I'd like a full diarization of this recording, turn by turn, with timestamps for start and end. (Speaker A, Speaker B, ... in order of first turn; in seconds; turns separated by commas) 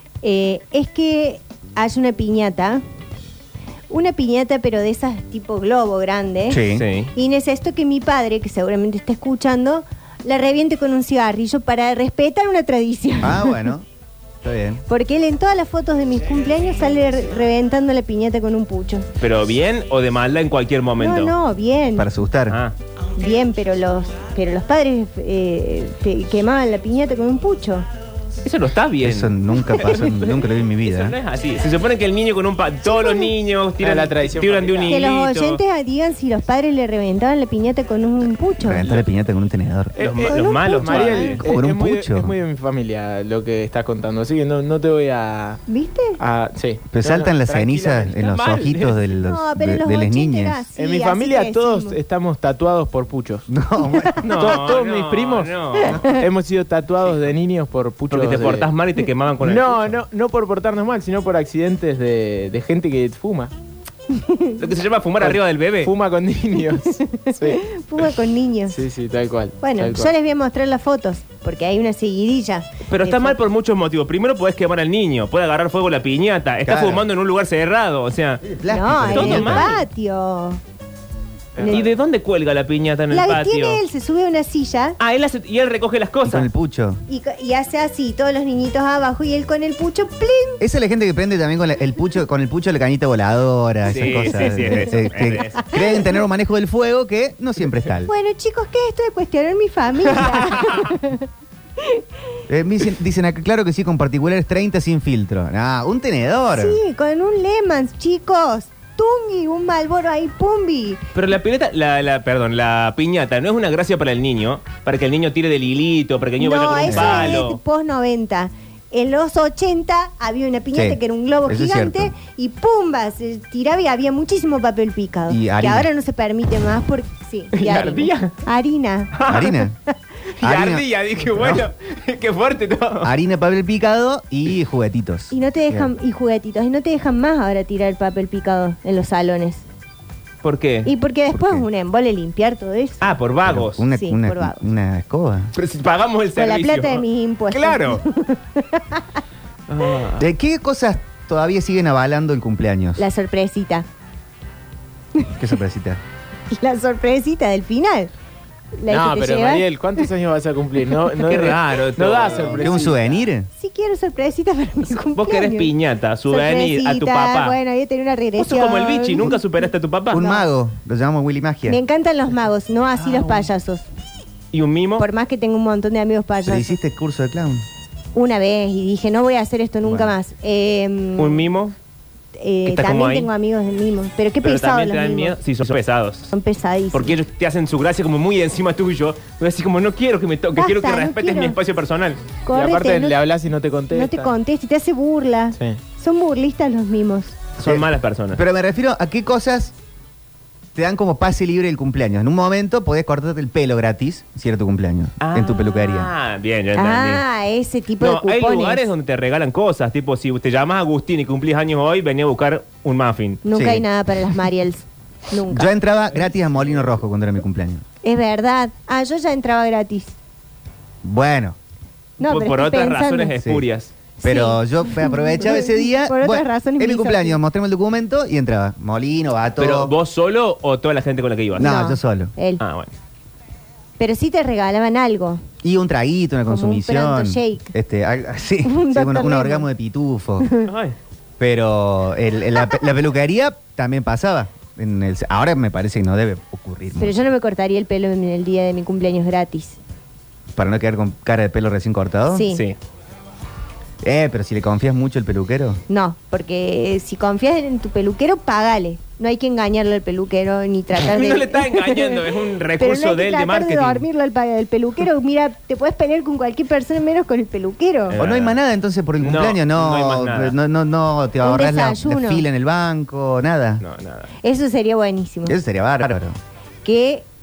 Speaker A: 0.2-2.8, Speaker A: 3.9-6.6, Speaker B: 6.5-6.9, Speaker C: 6.7-7.1, Speaker A: 7.1-13.7, Speaker B: 13.2-13.9, Speaker B: 14.4-14.8, Speaker A: 14.9-19.1, Speaker C: 19.2-21.3, Speaker A: 21.0-22.1, Speaker B: 22.0-22.6, Speaker C: 22.5-22.8, Speaker A: 23.2-27.9, Speaker C: 28.4-35.6, Speaker B: 29.0-31.2, Speaker A: 32.9-33.3, Speaker D: 33.8-35.0, Speaker A: 34.9-38.9, Speaker B: 38.6-39.9, Speaker D: 40.0-45.6, Speaker C: 40.0-41.4, Speaker A: 40.3-41.4, Speaker B: 41.4-42.4, Speaker A: 45.7-46.2, Speaker D: 46.2-48.3, Speaker B: 46.9-50.7, Speaker C: 48.2-49.0, Speaker A: 49.1-52.0, Speaker D: 50.8-53.5, Speaker B: 53.5-54.5, Speaker A: 53.9-54.2, Speaker C: 54.2-56.0, Speaker D: 54.3-58.7, Speaker C: 58.1-60.0, Speaker D: 59.4-63.5, Speaker A: 64.1-64.6, Speaker C: 64.6-65.9, Speaker D: 65.2-67.6, Speaker A: 67.1-68.8, Speaker D: 68.7-70.1, Speaker A: 69.6-73.4, Speaker C: 72.9-78.4, Speaker B: 76.7-77.1, Speaker B: 78.4-79.8, Speaker A: 78.7-80.6, Speaker C: 79.1-79.8, Speaker A: 81.6-81.9, Speaker C: 81.6-83.8, Speaker A: 83.1-85.0, Speaker C: 85.0-86.5, Speaker B: 86.2-87.0, Speaker A: 87.1-90.6, Speaker B: 90.6-98.1, Speaker C: 93.9-95.7, Speaker A: 98.1-101.3, Speaker C: 100.2-100.9, Speaker A: 101.8-102.0, Speaker B: 102.5-106.8, Speaker A: 106.5-111.0, Speaker C: 111.2-117.6, Speaker A: 116.4-129.1, Speaker B: 116.9-117.4, Speaker B: 120.7-122.1, Speaker B: 125.3-125.9, Speaker C: 127.5-128.3, Speaker C: 129.1-129.6, Speaker B: 129.3-129.8, Speaker B: 130.4-131.7, Speaker C: 130.4-133.1, Speaker B: 133.0-135.9, Speaker A: 135.3-139.6, Speaker C: 140.4-140.9, Speaker A: 140.8-143.1, Speaker B: 141.3-141.7, Speaker C: 143.0-143.8, Speaker B: 143.4-145.5, Speaker A: 143.9-144.6, Speaker C: 145.6-148.0, Speaker A: 146.3-149.2, Speaker C: 149.7-150.3, Speaker B: 150.2-153.0, Speaker A: 153.0-153.9, Speaker B: 155.4-156.0, Speaker A: 156.5-158.1, Speaker A: 158.8-160.1, Speaker D: 158.9-163.2, Speaker C: 161.2-162.8, Speaker B: 162.6-163.5, Speaker A: 163.6-165.7, Speaker C: 165.2-167.6, Speaker A: 166.3-169.3, Speaker C: 168.4-170.2, Speaker B: 170.1-171.8, Speaker A: 170.2-170.5, Speaker A: 171.7-173.8, Speaker C: 173.0-173.5, Speaker C: 174.5-175.1, Speaker A: 175.0-176.7, Speaker B: 176.5-177.7, Speaker A: 178.2-181.5, Speaker B: 179.9-180.1, Speaker C: 181.2-181.8, Speaker A: 182.4-185.4, Speaker C: 182.7-183.3, Speaker C: 184.4-186.3, Speaker A: 186.3-187.2, Speaker C: 186.9-192.2, Speaker A: 190.6-191.6, Speaker A: 192.4-193.2, Speaker D: 192.5-194.3, Speaker A: 193.9-197.4, Speaker C: 197.6-198.4, Speaker B: 197.6-199.7, Speaker B: 200.8-206.1, Speaker C: 205.2-207.2, Speaker A: 206.8-208.9, Speaker C: 208.0-213.4, Speaker A: 213.4-215.7, Speaker B: 213.5-213.8, Speaker B: 215.5-217.8, Speaker A: 218.0-220.2, Speaker B: 221.0-221.6, Speaker A: 222.2-223.3, Speaker C: 222.2-223.9, Speaker A: 224.2-227.4, Speaker B: 224.2-229.9, Speaker C: 229.6-231.7, Speaker B: 231.6-232.3, Speaker A: 231.6-232.6, Speaker C: 232.6-232.9, Speaker A: 234.0-235.4, Speaker B: 235.6-240.5, Speaker A: 236.5-237.7, Speaker A: 238.6-239.7, Speaker C: 240.7-241.0, Speaker B: 241.4-247.2, Speaker A: 247.0-249.8, Speaker B: 250.6-252.5, Speaker A: 252.3-252.6, Speaker C: 252.5-252.8, Speaker B: 254.0-255.8, Speaker A: 255.9-262.2, Speaker C: 261.0-264.1, Speaker A: 262.8-268.2, Speaker C: 268.1-268.6, Speaker B: 268.2-273.8, Speaker C: 269.2-270.6, Speaker A: 271.4-272.4, Speaker C: 273.8-274.3, Speaker A: 274.4-275.6, Speaker B: 275.5-276.4, Speaker A: 276.8-277.3